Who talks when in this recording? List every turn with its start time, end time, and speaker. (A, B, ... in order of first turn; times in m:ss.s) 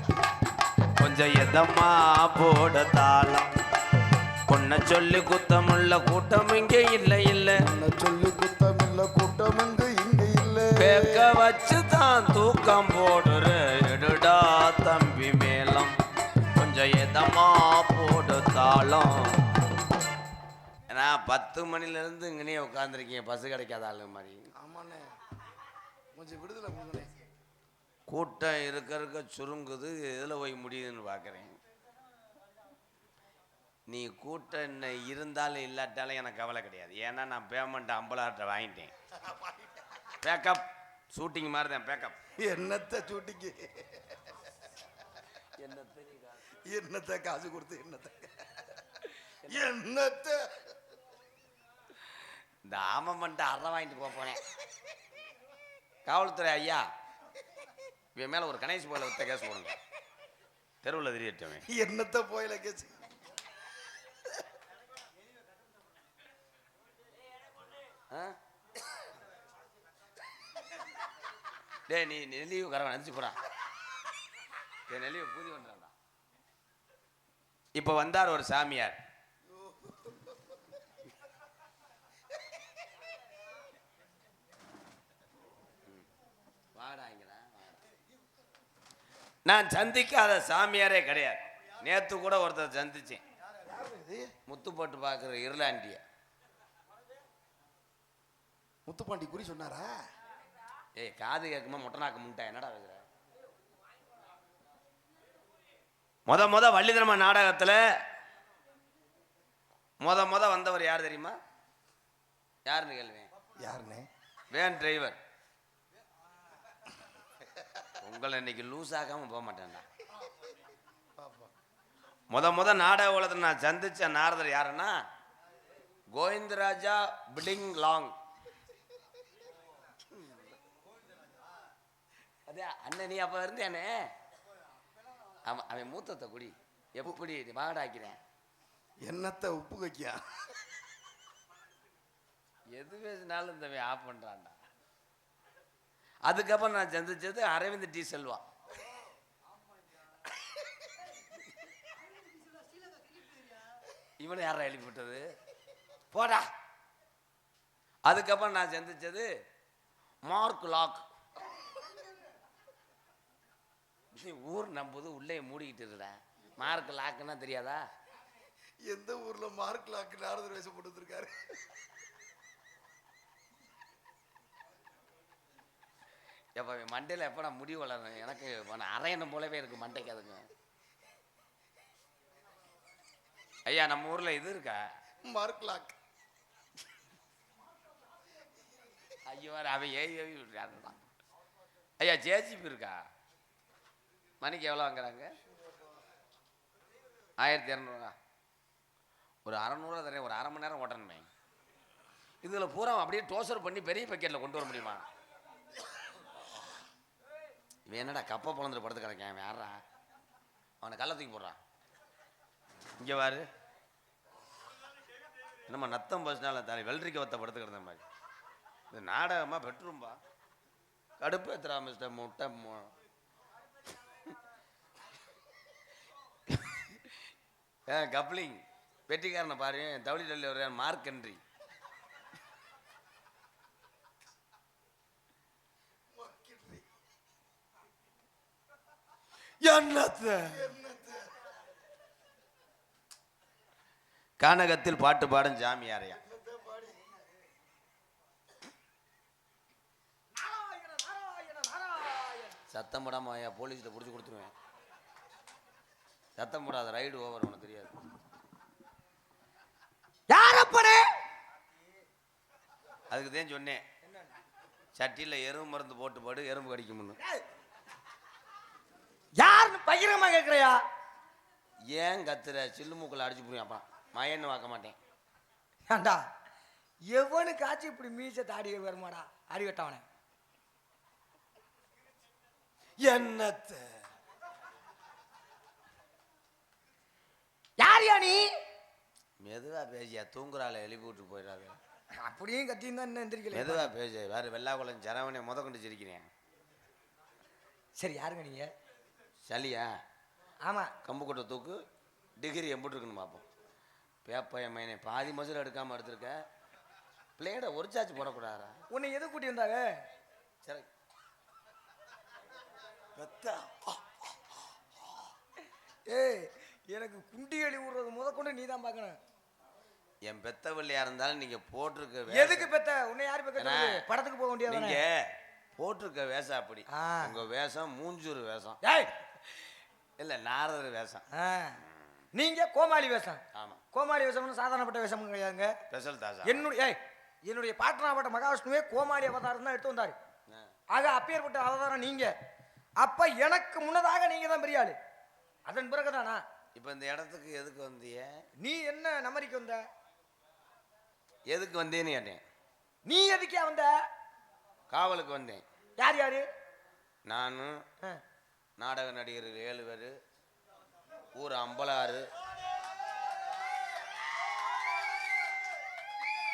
0:01.0-0:03.5 A
0:04.5-0:07.6 A
0:07.6-0:11.3 B
0:10.8-0:16.0 A
0:16.6-0:19.4 A
0:20.9-0:24.5 A
0:24.6-0:25.2 B
0:26.2-0:27.1 B
0:28.1-0:31.6 A
0:33.9-0:38.9 A
0:39.2-0:39.8 B
0:40.2-0:42.2 A
0:42.4-0:44.5 B
0:45.6-0:46.4 A
0:46.7-0:50.8 B
0:49.4-0:49.7 A
0:52.6-0:54.4 A
0:56.1-0:56.9 A
0:58.2-0:59.8 A
1:00.8-1:01.6 A
1:01.7-1:03.1 B
1:08.1-1:08.4 A
1:11.9-1:13.4 A
1:14.9-1:15.9 A
1:17.8-1:19.0 A
1:19.5-1:20.6 B
1:26.8-1:27.8 A
1:29.4-1:33.2 A
1:33.6-1:34.3 B
1:34.5-1:36.0 A
1:38.9-1:40.0 B
1:41.0-1:43.0 A
1:46.3-1:48.0 A
1:50.0-1:51.4 A
1:52.7-1:53.3 A
1:53.6-1:54.1 B
1:54.5-1:55.2 A
1:58.0-1:59.9 A
2:01.2-2:01.5 B
2:02.3-2:05.0 A
2:06.1-2:08.2 A
2:10.1-2:10.6 A
2:12.5-2:14.1 A
2:15.5-2:18.2 A
2:19.0-2:20.2 B
2:22.7-2:24.6 A
2:26.2-2:28.4 A
2:34.2-2:35.3 A
2:36.1-2:36.5 A
2:38.1-2:39.3 A
2:40.2-2:41.1 A
2:44.1-2:47.9 A
2:48.9-2:51.7 B
2:56.6-3:00.5 A
3:03.7-3:04.9 A
3:05.2-3:06.0 B
3:09.3-3:11.0 A
3:12.0-3:13.0 A
3:14.4-3:15.3 A
3:17.4-3:18.2 A
3:19.4-3:21.3 A
3:22.4-3:25.1 A
3:27.9-3:29.8 A
3:30.8-3:31.6 A
3:33.0-3:33.5 A
3:35.7-3:38.0 A
3:38.9-3:40.2 A
3:41.2-3:42.9 A
3:46.5-3:47.1 A
3:47.9-3:51.4 A
3:56.1-3:56.9 B
3:59.6-4:00.6 A
4:00.5-4:01.4 B
4:04.4-4:06.2 A
4:06.1-4:07.2 B
4:10.4-4:12.6 C
4:12.7-4:14.5 A
4:16.4-4:18.0 A
4:20.3-4:21.1 C
4:23.1-4:23.8 A
4:24.0-4:24.3 C
4:25.0-4:27.2 A
4:29.4-4:30.8 C
4:31.9-4:35.0 A
4:35.9-4:36.2 C
4:37.1-4:40.0 C
4:43.0-4:43.9 A
4:47.8-4:48.5 C
4:49.4-4:51.8 A
4:52.2-4:53.9 C
4:53.5-4:56.3 A
4:58.0-4:58.7 C
4:59.5-5:00.0 A
5:00.6-5:00.9 C
5:01.0-5:01.8 A
5:02.4-5:03.5 A
5:04.2-5:06.4 A
5:07.4-5:08.8 A
5:08.9-5:10.0 C
5:13.2-5:14.2 A
5:16.1-5:19.2 C
5:20.2-5:22.7 A
5:22.3-5:25.0 C
5:23.6-5:24.0 A
5:24.7-5:28.8 A
5:26.9-5:27.4 C
5:28.8-5:29.1 C
5:30.2-5:31.2 A
5:31.4-5:31.8 C
5:32.4-5:33.4 C
5:33.5-5:33.8 A
5:33.9-5:35.8 C
5:35.9-5:36.6 A
5:36.4-5:40.2 C
5:40.9-5:42.3 C
5:43.0-5:45.0 C
5:45.7-5:46.4 C
5:46.8-5:48.4 A
5:48.6-5:49.8 C
5:51.5-5:52.4 A
5:53.1-5:54.0 C
5:54.9-5:55.6 A
5:56.0-5:56.5 C
5:57.3-5:57.8 A
5:58.8-6:00.2 A
6:01.4-6:02.3 A